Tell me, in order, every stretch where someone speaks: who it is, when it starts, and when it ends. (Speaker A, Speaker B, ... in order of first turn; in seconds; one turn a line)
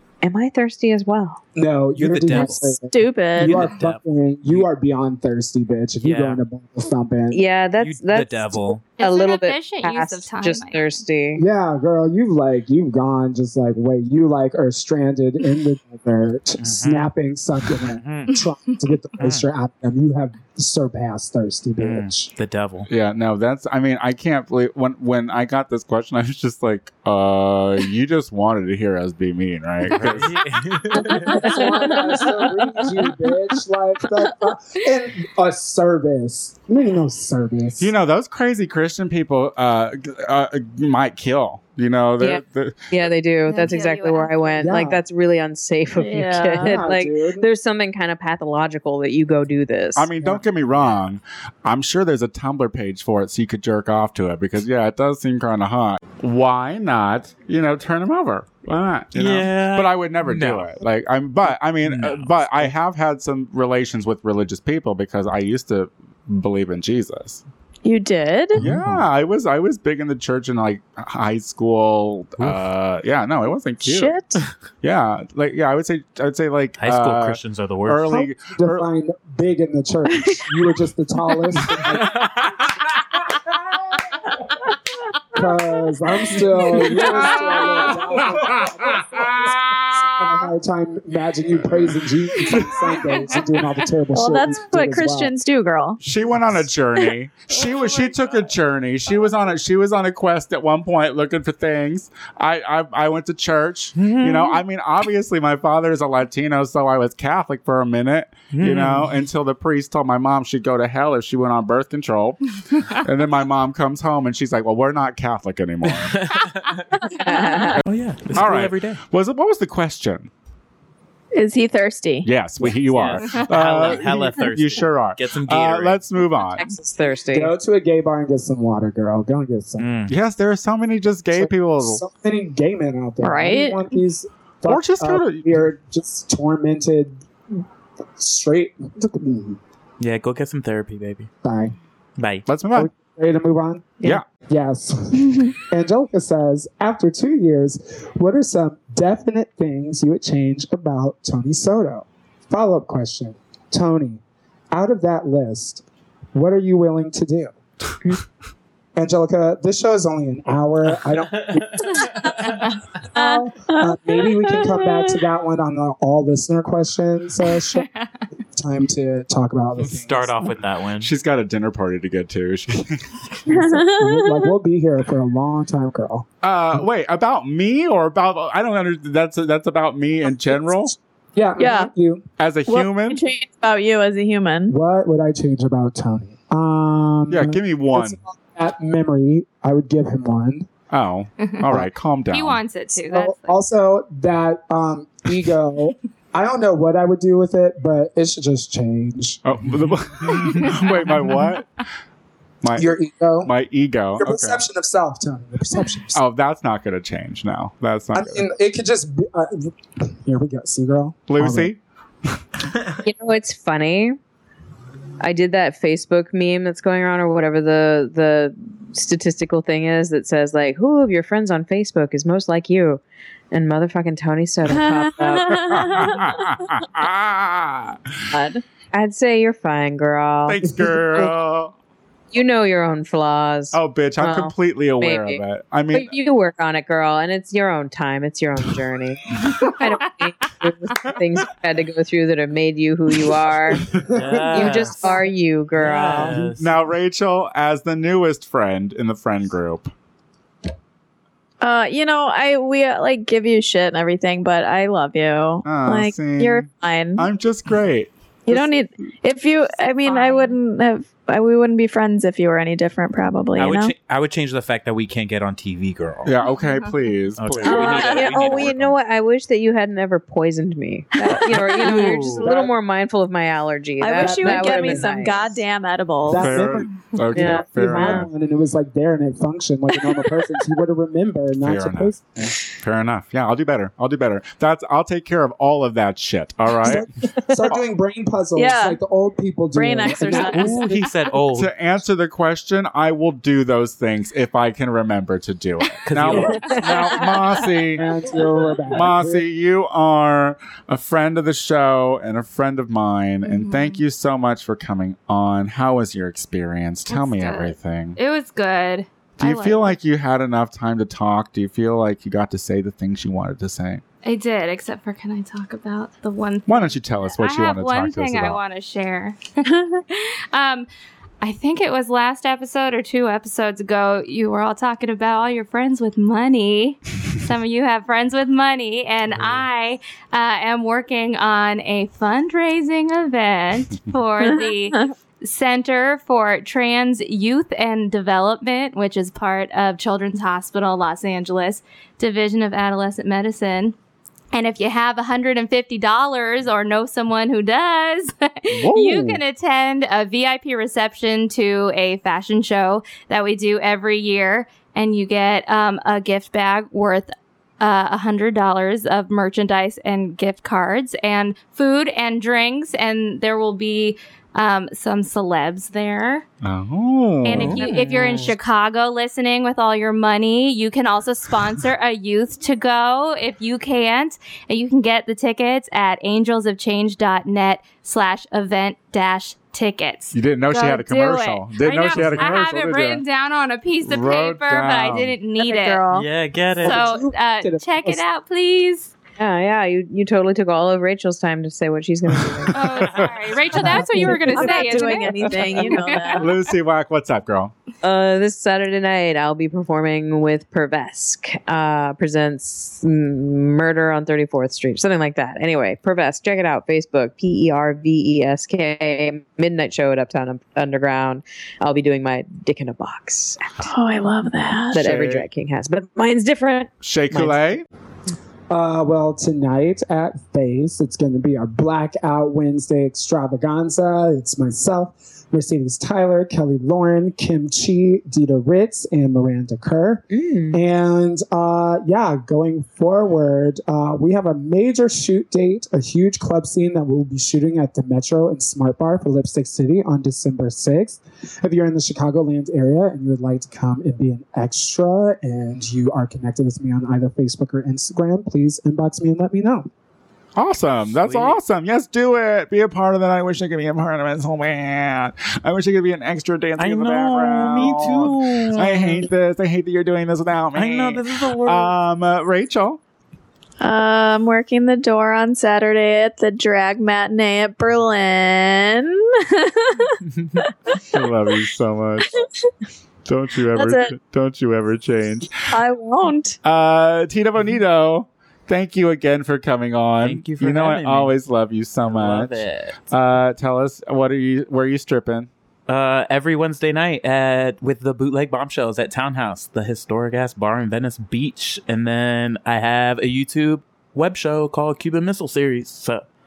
Speaker A: 0.2-1.4
Speaker B: 1.5-7.4
Speaker C: 1.9-2.8
Speaker D: 2.9-3.7
Speaker C: 3.4-4.7
Speaker C: 6.0-6.4
Speaker A: 7.3-11.4
Speaker C: 7.8-8.8
Speaker E: 9.0-11.0
Speaker B: 11.4-22.3
Speaker C: 16.6-17.1
Speaker C: 17.7-18.4
Speaker C: 19.2-19.5
Speaker C: 21.8-22.9
Speaker F: 22.9-30.8
Speaker C: 29.8-31.6
Speaker B: 30.9-37.9
Speaker D: 31.4-32.3
Speaker F: 37.8-42.8
Speaker A: 42.2-50.4
Speaker E: 43.5-44.6
Speaker B: 44.6-45.0
Speaker D: 46.0-46.8
Speaker B: 46.6-47.5
Speaker F: 50.0-67.4
Speaker C: 59.1-60.8
Speaker C: 61.8-62.4
Speaker D: 67.8-68.6
Speaker F: 68.5-74.1
Speaker C: 68.6-69.0
Speaker C: 72.4-72.6
Speaker D: 73.8-74.4
Speaker F: 74.8-78.9
Speaker C: 76.8-78.1
Speaker B: 78.1-82.2
Speaker D: 80.1-80.6
Speaker C: 81.9-82.7
Speaker B: 85.3-95.3
Speaker F: 86.7-90.2
Speaker D: 86.7-87.9
Speaker F: 91.7-92.9
Speaker D: 94.1-96.0
Speaker F: 96.0-116.2
Speaker C: 103.9-104.6
Speaker C: 108.5-109.1
Speaker C: 115.8-117.1
Speaker A: 117.2-117.8
Speaker C: 117.8-119.0
Speaker F: 118.3-120.3
Speaker D: 121.3-122.3
Speaker F: 122.2-126.7
Speaker C: 122.8-126.1
Speaker A: 126.2-127.5
Speaker B: 127.3-129.9
Speaker C: 129.8-130.2
Speaker F: 130.1-132.0
Speaker B: 131.3-137.2
Speaker D: 133.2-133.8
Speaker F: 134.7-135.7
Speaker B: 138.2-139.6
Speaker C: 140.0-141.3
Speaker B: 141.4-141.8
Speaker C: 142.2-142.5
Speaker F: 142.5-142.9
Speaker B: 142.7-157.5
Speaker B: 159.0-162.6
Speaker C: 160.9-162.7
Speaker B: 163.1-167.9
Speaker D: 163.1-165.2
Speaker B: 168.5-170.6
Speaker C: 169.8-171.1
Speaker F: 171.0-173.3
Speaker B: 173.5-176.3
Speaker D: 173.5-174.5
Speaker F: 176.4-180.9
Speaker B: 180.4-182.2
Speaker D: 181.6-181.9
Speaker F: 182.4-183.2
Speaker D: 182.7-184.8
Speaker B: 184.7-190.7
Speaker F: 187.3-188.2
Speaker F: 190.9-192.6
Speaker E: 192.3-193.6
Speaker B: 192.9-199.4
Speaker F: 199.4-201.8
Speaker F: 202.6-204.6
Speaker B: 202.7-203.5
Speaker B: 204.2-206.2
Speaker F: 206.1-208.5
Speaker B: 208.1-211.7
Speaker F: 211.3-211.8
Speaker A: 213.0-214.2
Speaker A: 215.2-226.1
Speaker D: 224.7-226.5
Speaker F: 225.6-228.0
Speaker A: 228.3-231.2
Speaker F: 230.5-231.7
Speaker A: 232.3-243.9
Speaker F: 233.7-236.1
Speaker B: 243.8-245.2
Speaker C: 244.1-245.2
Speaker A: 244.5-246.5
Speaker C: 245.8-246.8
Speaker F: 246.5-249.9
Speaker D: 251.6-257.3
Speaker F: 255.6-258.1
Speaker D: 258.5-263.9
Speaker E: 260.0-260.5
Speaker C: 263.5-266.4
Speaker F: 266.2-268.2
Speaker C: 267.4-269.0
Speaker A: 267.6-275.6
Speaker C: 271.7-272.5
Speaker B: 272.4-272.8
Speaker D: 274.0-276.7
Speaker B: 274.1-275.1
Speaker B: 276.2-282.5
Speaker F: 276.3-278.3
Speaker A: 277.4-278.3
Speaker F: 281.6-287.1
Speaker B: 286.8-290.9
Speaker D: 288.5-289.0
Speaker D: 289.8-290.9
Speaker C: 290.4-291.8
Speaker F: 290.7-298.0
Speaker C: 296.0-297.1
Speaker B: 297.9-299.4
Speaker F: 298.9-308.2
Speaker E: 303.4-304.0
Speaker E: 307.1-310.0
Speaker F: 309.4-314.0
Speaker E: 314.2-320.9
Speaker F: 316.7-318.6
Speaker E: 321.4-343.9
Speaker F: 329.4-329.6
Speaker D: 334.5-335.1
Speaker E: 344.5-366.4
Speaker F: 348.7-349.4
Speaker F: 366.6-367.8
Speaker E: 367.4-386.0
Speaker C: 367.5-368.5
Speaker F: 380.3-383.2
Speaker C: 382.1-382.6
Speaker F: 384.0-385.4
Speaker D: 385.6-386.3
Speaker C: 386.1-387.1
Speaker B: 386.8-388.2
Speaker E: 386.9-389.1
Speaker A: 389.4-392.8
Speaker F: 392.7-393.4
Speaker E: 392.7-396.5
Speaker B: 393.7-395.0
Speaker A: 393.8-395.8
Speaker D: 394.5-396.6
Speaker F: 396.4-397.7
Speaker A: 398.0-413.9
Speaker D: 413.8-415.1
Speaker A: 414.9-417.8
Speaker F: 414.9-415.4
Speaker F: 417.0-417.9
Speaker B: 418.7-449.9
Speaker A: 430.3-430.8
Speaker F: 450.5-463.0
Speaker C: 451.2-451.6
Speaker C: 456.8-459.3
Speaker C: 460.8-461.9
Speaker D: 463.8-471.1
Speaker C: 470.2-470.6
Speaker F: 471.0-472.4
Speaker D: 472.3-472.7
Speaker F: 473.2-475.8
Speaker D: 473.7-474.1
Speaker D: 475.6-476.6
Speaker F: 476.6-485.5
Speaker C: 480.2-481.4
Speaker C: 482.0-483.0
Speaker C: 485.9-496.2